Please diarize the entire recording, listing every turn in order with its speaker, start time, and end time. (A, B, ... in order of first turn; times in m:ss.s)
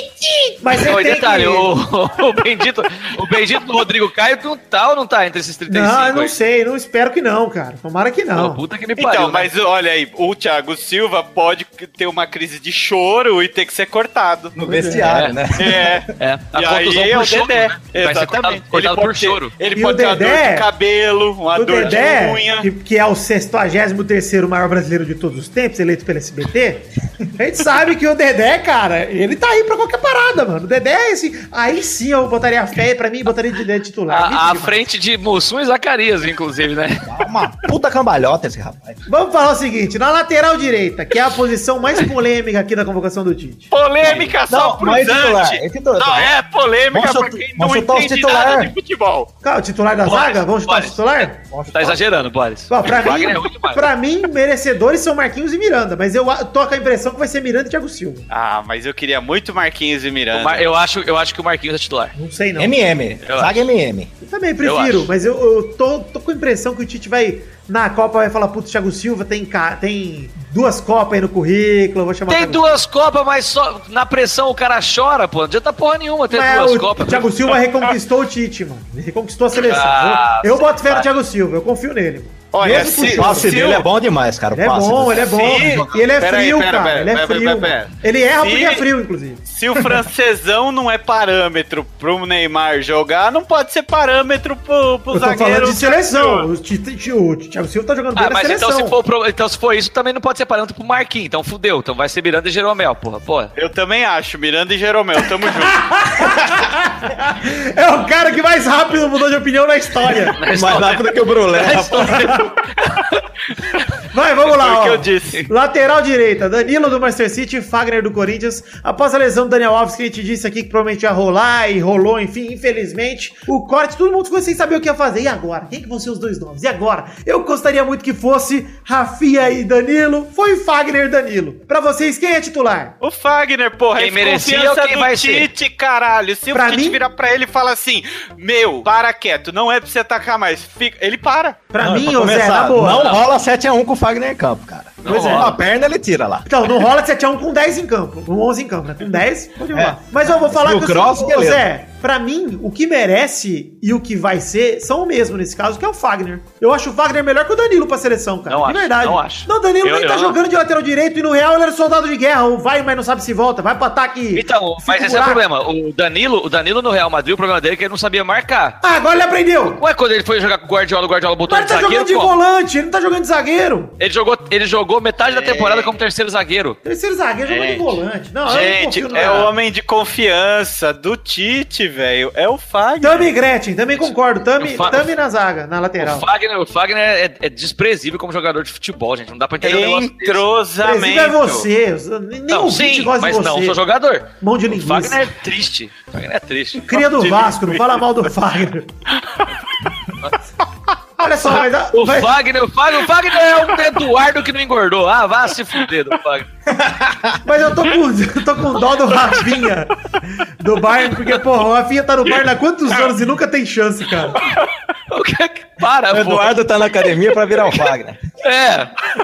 0:00.1-0:06.3 A
0:00.6-0:01.7 B
0:05.7-0:08.6 B
0:08.4-0:09.5 A
0:09.0-0:14.6 C
0:14.6-0:16.0 D
0:14.7-0:15.0 B
0:15.0-0:15.4 A
0:15.6-0:22.7 C
0:16.2-0:19.5 A
0:19.7-0:20.7 B
0:21.5-0:34.9 B
0:34.1-0:37.1 A
0:37.0-0:39.0 D
0:39.1-0:43.7 B
0:43.7-0:49.3 C
0:44.0-0:46.4 D
0:44.0-0:44.4 A
0:46.9-0:48.7 D
0:49.4-0:51.4 B
0:50.0-0:51.0 A
0:51.5-0:52.0 D
0:51.7-0:53.9 A
0:52.7-0:58.3 B
0:58.3-1:00.7 C
1:00.3-1:02.2 A
1:02.2-1:02.7 B
1:02.6-1:04.1 D
1:03.2-1:03.6 A
1:04.2-1:12.8 B
1:04.6-1:05.1 A
1:12.3-1:17.4 A
1:16.3-1:23.6 B
1:19.5-1:21.1 A
1:22.5-1:23.9 C
1:22.6-1:26.0 D
1:24.5-1:30.0 B
1:25.1-1:28.9 C
1:29.5-1:36.5 C
1:35.1-1:39.0 B
1:38.2-1:43.5 A
1:43.6-1:45.8 C
1:45.5-1:50.4 B
1:50.4-1:52.4 A
1:50.5-1:52.2 D
1:51.9-1:52.4 B
1:54.1-2:12.9 B
1:54.4-1:55.4 C
2:13.0-2:21.6 C
2:14.0-2:15.5 A
2:16.5-2:17.0 B
2:21.7-2:23.2 B
2:21.8-2:26.5 D
2:25.0-2:25.5 A
2:25.1-2:25.6 B
2:26.5-2:45.4 B
2:29.7-2:31.7 D
2:38.5-2:40.4 A
2:44.3-2:48.8 A
2:48.8-2:49.8 B
2:49.7-2:52.4 A
2:51.5-2:53.9 B
2:54.0-2:56.8 A
2:55.2-2:55.9 C
2:56.8-2:59.5 B
2:57.5-3:03.3 C
2:59.2-2:59.5 A
3:03.0-3:06.3 B
3:04.6-3:05.1 A
3:06.0-3:10.4 A
3:09.6-3:11.7 C
3:10.8-3:13.8 B
3:12.5-3:17.0 A
3:14.4-3:15.2 B
3:16.8-3:18.9 B
3:17.0-3:18.1 C
3:19.1-3:19.5 C
3:21.2-3:22.4 B
3:21.9-3:26.5 A
3:26.7-3:27.4 D
3:27.4-3:34.4 B
3:35.1-3:36.8 A
3:36.1-3:38.2 D
3:38.4-3:38.9 A